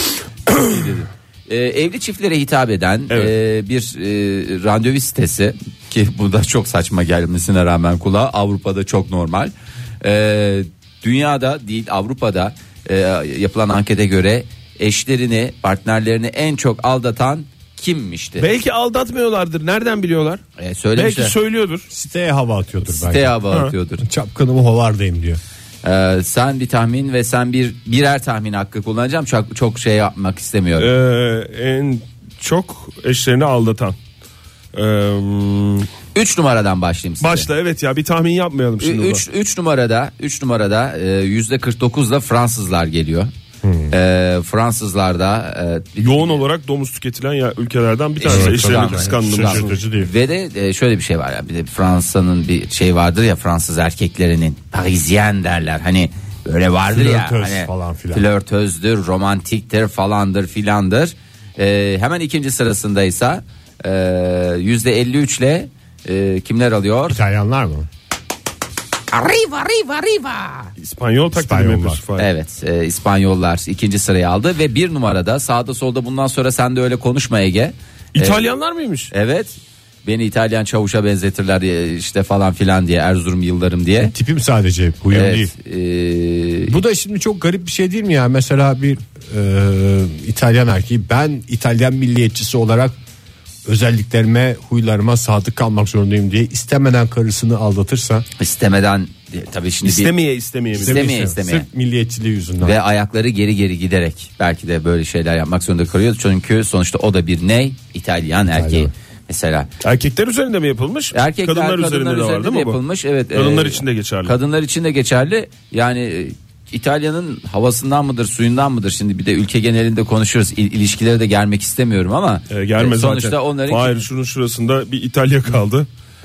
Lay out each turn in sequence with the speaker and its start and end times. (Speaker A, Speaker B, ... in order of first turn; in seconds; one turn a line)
Speaker A: 0.5-18.4
Speaker B: 18.4-20.4
Speaker A: 20.6-21.3
Speaker B: 20.9-21.9
Speaker C: 21.9-23.4
Speaker A: 22.8-24.0
Speaker C: 24.0-25.4
Speaker A: 25.8-30.9
Speaker B: 30.8-33.9
Speaker B: 34.7-35.9
Speaker A: 36.1-37.5
Speaker B: 37.2-39.2
Speaker A: 38.8-43.3
Speaker C: 43.6-43.9
Speaker A: 43.9-46.4
Speaker B: 46.0-49.8
Speaker A: 48.2-67.2
Speaker C: 48.3-50.1
Speaker C: 56.9-58.2
Speaker C: 67.1-67.9
Speaker A: 69.1-70.7
Speaker B: 70.8-72.3
Speaker C: 71.3-72.0
Speaker A: 72.2-78.4
Speaker B: 78.1-79.1
Speaker A: 79.1-84.1
Speaker C: 84.0-85.5
Speaker A: 85.1-86.7
Speaker C: 86.7-92.9
Speaker C: 93.7-98.2
Speaker A: 98.4-100.1
Speaker B: 99.8-101.1
Speaker C: 100.7-102.8
Speaker A: 100.8-101.7
Speaker A: 102.6-109.7
Speaker C: 108.5-108.9
Speaker B: 109.8-112.8
Speaker A: 111.1-124.0
Speaker B: 113.3-114.3
Speaker B: 122.5-125.9